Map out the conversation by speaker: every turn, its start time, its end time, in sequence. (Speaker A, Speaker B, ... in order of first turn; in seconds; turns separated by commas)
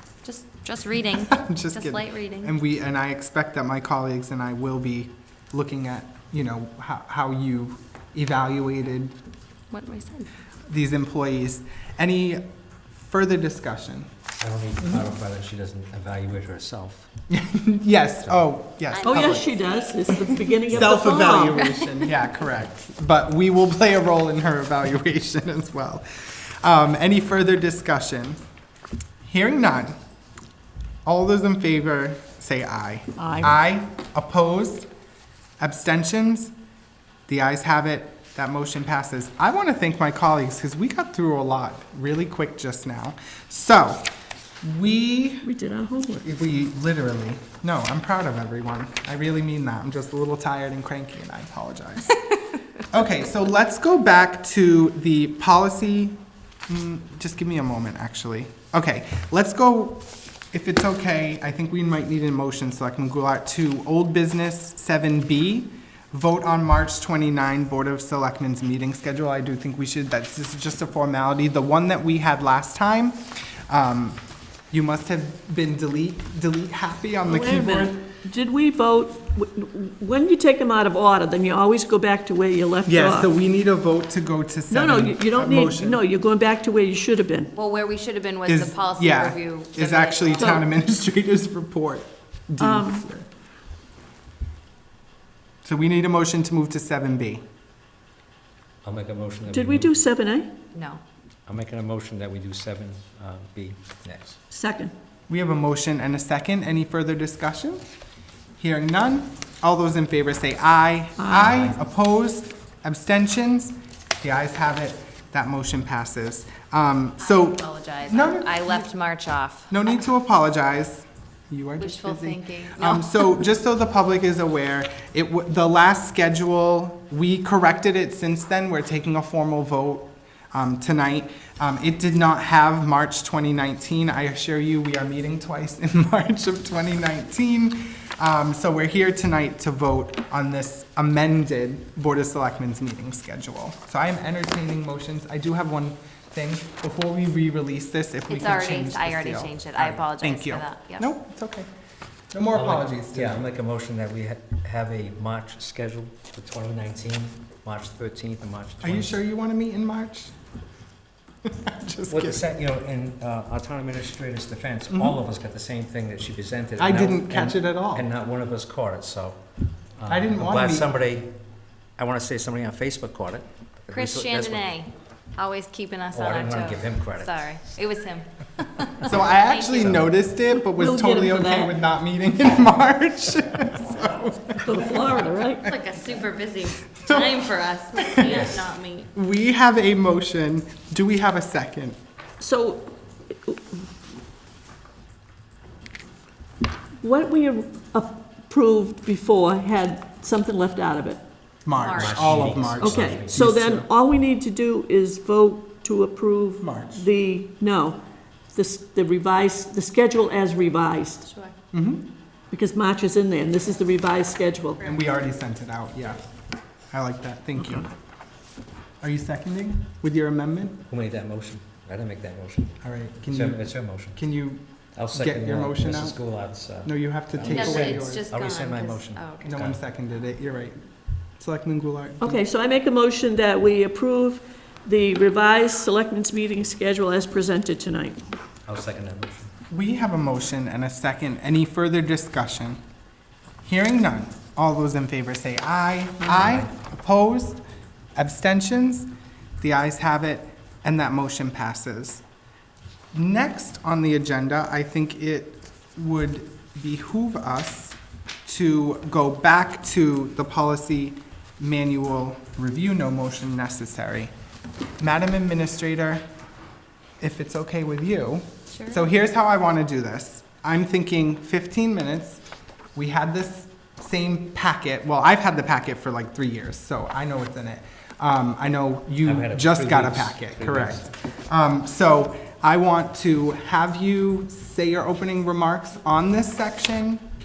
Speaker A: 0.2-2.5, Speaker B: 1.4-9.1, Speaker A: 9.7-10.3, Speaker B: 10.7-12.4, Speaker B: 13.0-14.1, Speaker C: 14.4-17.1, Speaker B: 14.8-15.1, Speaker B: 17.3-19.5, Speaker A: 18.9-19.8, Speaker D: 19.0-21.7, Speaker B: 20.1-28.4, Speaker C: 20.7-21.0, Speaker B: 29.2-29.9, Speaker B: 31.1-34.9, Speaker D: 33.2-33.5, Speaker B: 35.6-36.5, Speaker B: 37.3-44.1, Speaker B: 44.6-45.5, Speaker D: 45.4-46.3, Speaker B: 46.2-52.2, Speaker B: 52.9-56.1, Speaker B: 56.7-74.2, Speaker B: 74.7-78.0, Speaker D: 77.3-83.3, Speaker B: 82.9-86.0, Speaker D: 84.7-87.5, Speaker A: 87.5-90.6, Speaker B: 88.5-93.3, Speaker D: 92.6-93.1, Speaker B: 95.6-97.4, Speaker C: 98.8-100.0, Speaker D: 99.5-100.5, Speaker A: 100.7-101.0, Speaker C: 101.5-104.4, Speaker D: 104.5-104.9, Speaker B: 105.3-107.8, Speaker B: 108.6-118.9, Speaker D: 111.2-111.5, Speaker C: 111.4-111.8, Speaker A: 117.2-119.9, Speaker B: 119.7-151.7, Speaker A: 121.8-123.2, Speaker A: 148.3-151.1, Speaker B: 152.3-153.4, Speaker C: 152.5-159.2, Speaker B: 158.8-160.3, Speaker B: 161.4-162.5, Speaker C: 162.1-169.4, Speaker B: 164.9-165.2, Speaker B: 166.8-168.1, Speaker C: 170.0-171.3, Speaker B: 170.1-170.9, Speaker C: 172.0-174.7, Speaker A: 173.9-180.0, Speaker C: 176.1-177.4, Speaker B: 179.0-185.7, Speaker C: 179.8-180.1, Speaker D: 180.5-181.7, Speaker D: 184.6-185.6, Speaker A: 185.6-189.1, Speaker B: 187.0-187.4, Speaker B: 188.0-188.5, Speaker C: 188.2-188.7, Speaker B: 189.1-192.0, Speaker D: 192.4-193.7, Speaker D: 197.0-201.2, Speaker B: 201.6-203.4, Speaker A: 201.7-202.5, Speaker C: 201.9-203.8, Speaker D: 202.8-208.0, Speaker B: 206.6-207.0, Speaker D: 208.5-211.3, Speaker A: 211.2-211.5, Speaker B: 211.7-212.1, Speaker D: 212.5-214.9, Speaker B: 214.8-216.2, Speaker B: 216.9-217.9, Speaker D: 217.6-217.8, Speaker B: 219.0-220.8, Speaker C: 220.8-224.2, Speaker B: 222.8-226.2, Speaker C: 224.9-229.8, Speaker B: 226.8-228.2, Speaker A: 227.4-229.6, Speaker B: 229.4-230.8, Speaker B: 231.4-232.4, Speaker D: 232.2-238.2, Speaker C: 238.7-239.5, Speaker B: 239.7-242.8, Speaker B: 243.6-247.6, Speaker C: 246.2-246.7, Speaker B: 248.2-249.1, Speaker B: 249.6-252.2, Speaker B: 253.1-264.3, Speaker B: 265.0-266.2, Speaker B: 267.2-272.4, Speaker A: 268.7-269.0, Speaker B: 272.9-287.2, Speaker C: 279.2-281.1